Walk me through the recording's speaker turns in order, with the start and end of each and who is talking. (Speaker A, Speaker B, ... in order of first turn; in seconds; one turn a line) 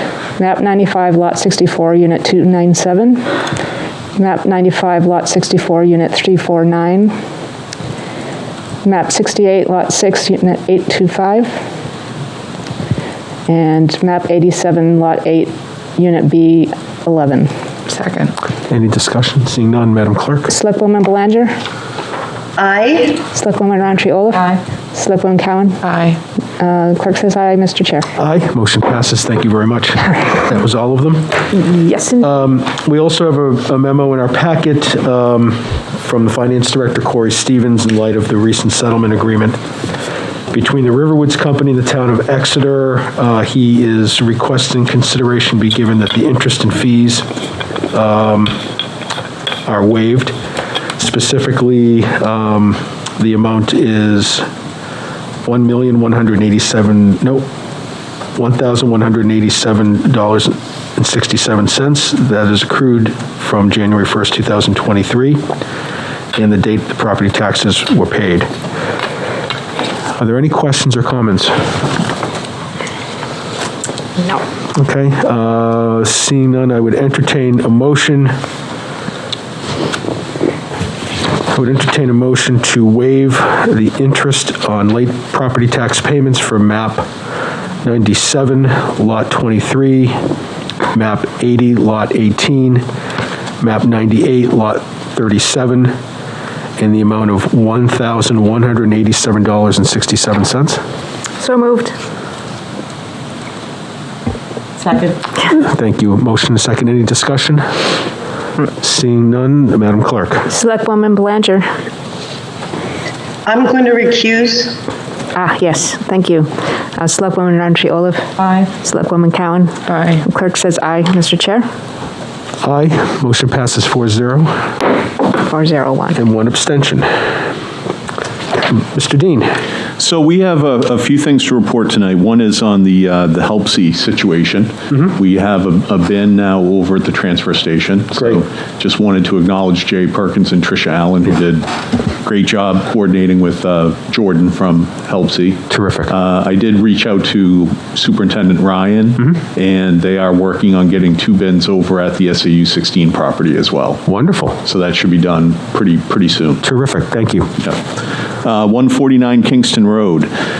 Speaker A: 0.4-3.3
Speaker A: 4.1-7.1
Speaker A: 8.8-11.6
Speaker A: 13.5-17.5
Speaker B: 17.9-18.3
Speaker C: 18.7-20.5
Speaker A: 20.5-21.5
Speaker D: 22.6-23.2
Speaker A: 23.2-25.8
Speaker B: 25.8-26.2
Speaker A: 26.6-28.1
Speaker C: 28.2-31.5
Speaker A: 31.6-32.2
Speaker C: 32.2-39.6
Speaker C: 40.5-47.3
Speaker C: 47.9-48.6
Speaker C: 49.7-50.4
Speaker C: 51.0-54.5
Speaker C: 55.5-57.5
Speaker C: 58.4-65.4
Speaker C: 66.3-68.5
Speaker C: 70.2-71.6
Speaker C: 74.7-78.3
Speaker C: 81.5-87.1
Speaker C: 87.8-90.2
Speaker C: 90.9-92.8
Speaker C: 93.6-96.0
Speaker C: 96.8-100.8
Speaker A: 101.4-101.9
Speaker B: 104.8-105.2
Speaker C: 105.5-107.8
Speaker C: 108.8-110.5
Speaker A: 110.5-111.7
Speaker D: 113.5-114.8
Speaker A: 115.3-121.7
Speaker B: 118.4-118.7
Speaker B: 119.9-120.2
Speaker C: 122.6-124.7
Speaker A: 125.3-126.2
Speaker C: 126.1-127.1
Speaker C: 128.6-129.5
Speaker E: 130.0-141.7
Speaker E: 142.2-154.0
Speaker C: 145.7-146.1
Speaker C: 154.1-154.6
Speaker E: 154.6-156.6
Speaker C: 156.6-157.5
Speaker E: 158.4-160.3